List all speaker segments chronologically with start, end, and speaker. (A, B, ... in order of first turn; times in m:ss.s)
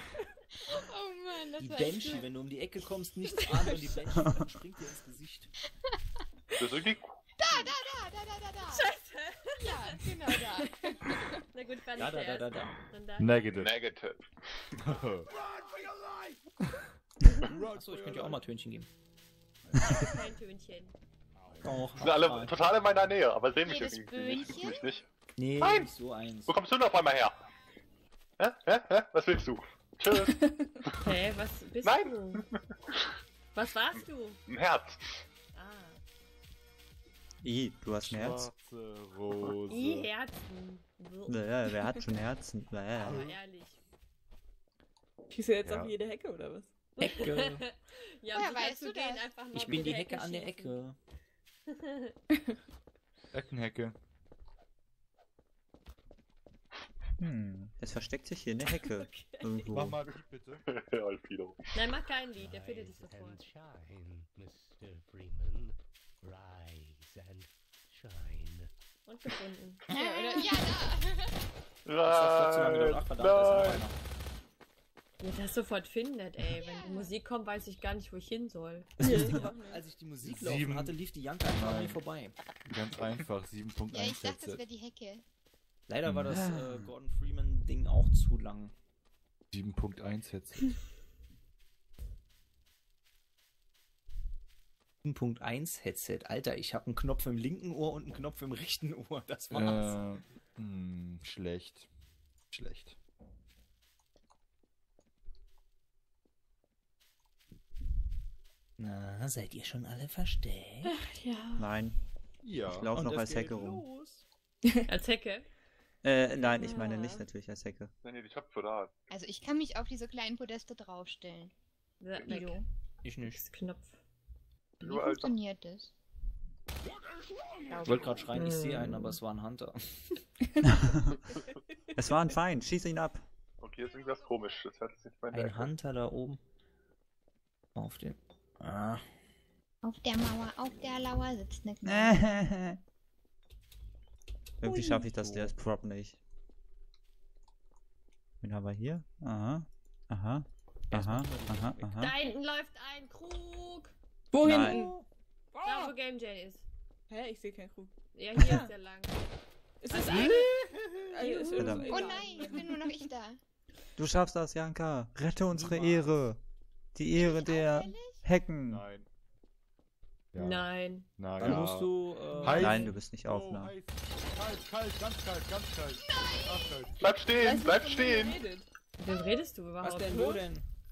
0:00.5-0:02.3 A
0:01.6-0:05.5 B
0:03.6-0:04.2 C
0:06.6-0:07.2 D
0:07.4-0:08.9 A
0:08.6-0:10.0 E
0:09.6-0:11.0 A
0:11.4-0:13.5 E
0:12.0-0:12.8 B
0:13.2-0:13.8 F
0:13.5-0:14.6 D
0:14.8-0:15.3 F
0:17.4-0:18.9 B
0:17.9-0:18.4 F
0:19.8-0:20.9 E
0:21.6-0:22.6 B
0:21.9-0:25.1 D
0:23.6-0:24.8 A
0:25.4-0:26.5 B
0:25.6-0:25.9 D
0:26.5-0:27.3 D
0:28.4-0:31.2 D
0:30.3-0:30.7 C
0:31.0-0:32.4 E
0:31.8-0:33.1 D
0:33.5-0:34.4 E
0:33.9-0:35.2 D
0:35.5-0:36.0 E
0:37.4-0:38.5 G
0:38.0-0:40.1 F
0:39.7-0:41.4 E
0:41.3-0:43.2 G
0:43.0-0:43.4 F
0:43.0-0:43.8 E
0:45.3-0:46.7 C
0:45.6-0:46.0 F
0:47.0-0:50.8 E
0:47.0-0:47.6 B
0:48.3-0:49.3 A
0:49.5-0:51.0 B
0:53.3-0:54.0 F
0:57.2-1:00.0 G
0:58.6-0:59.7 E
0:59.7-1:00.6 F
1:00.6-1:01.8 D
1:01.7-1:03.4 E
1:02.7-1:05.7 H
1:06.4-1:07.4 H
1:08.1-1:08.7 H
1:09.0-1:09.8 E
1:09.9-1:11.5 A
1:09.9-1:10.7 C
1:11.8-1:13.9 D
1:12.0-1:14.0 B
1:15.2-1:19.1 E
1:16.5-1:17.2 A
1:19.0-1:22.3 B
1:19.0-1:19.8 C
1:20.2-1:21.0 F
1:21.5-1:22.0 F
1:22.7-1:24.6 F
1:23.9-1:25.2 A
1:25.9-1:28.7 B
1:26.0-1:26.3 F
1:26.3-1:26.9 G
1:29.5-1:30.6 F
1:35.0-1:40.0 B
1:39.5-1:41.9 F
1:42.5-1:43.0 F
1:48.8-1:50.9 B
1:50.9-1:51.6 C
1:51.6-1:52.0 G
1:52.4-1:52.9 F
1:52.7-1:53.8 G
1:52.9-1:54.2 B
1:54.9-1:55.4 E
1:56.0-1:57.9 G
1:56.4-1:57.2 E
1:58.0-1:58.9 D
1:59.1-2:01.5 A
2:02.0-2:02.6 E
2:02.2-2:02.6 A
2:03.0-2:03.4 B
2:03.2-2:04.0 E
2:04.8-2:05.3 D
2:04.8-2:05.9 A
2:07.7-2:09.1 E
2:07.8-2:10.2 B
2:10.8-2:11.1 G
2:11.9-2:13.2 G
2:13.6-2:15.7 D
2:15.3-2:16.4 B
2:17.7-2:19.0 B
2:19.8-2:22.2 A
2:21.8-2:22.8 G
2:24.6-2:26.2 G
2:24.6-2:25.0 C
2:25.0-2:25.5 B
2:28.4-2:32.1 G
2:30.9-2:31.9 B
2:32.0-2:33.9 E
2:34.3-2:35.0 C
2:34.4-2:34.9 G
2:34.5-2:35.0 B
2:35.5-2:35.9 C
2:35.6-2:36.6 E
2:37.1-2:38.7 C
2:38.1-2:39.3 E
2:39.8-2:43.0 C
2:39.9-2:40.4 E
2:41.5-2:42.0 G
2:41.8-2:43.4 A
2:44.0-2:46.4 G
2:45.5-2:46.3 F
2:46.9-2:48.8 G
2:47.1-2:48.2 A
2:48.7-2:49.1 F
2:50.3-2:57.0 F
2:50.4-2:51.1 E
2:51.4-2:52.9 B
2:52.6-2:53.7 G
2:56.1-2:56.8 A
2:57.0-2:58.4 D
2:57.3-2:58.7 C
2:59.0-3:00.4 E
2:59.1-2:59.4 A
2:59.8-3:00.6 B
3:00.1-3:00.4 C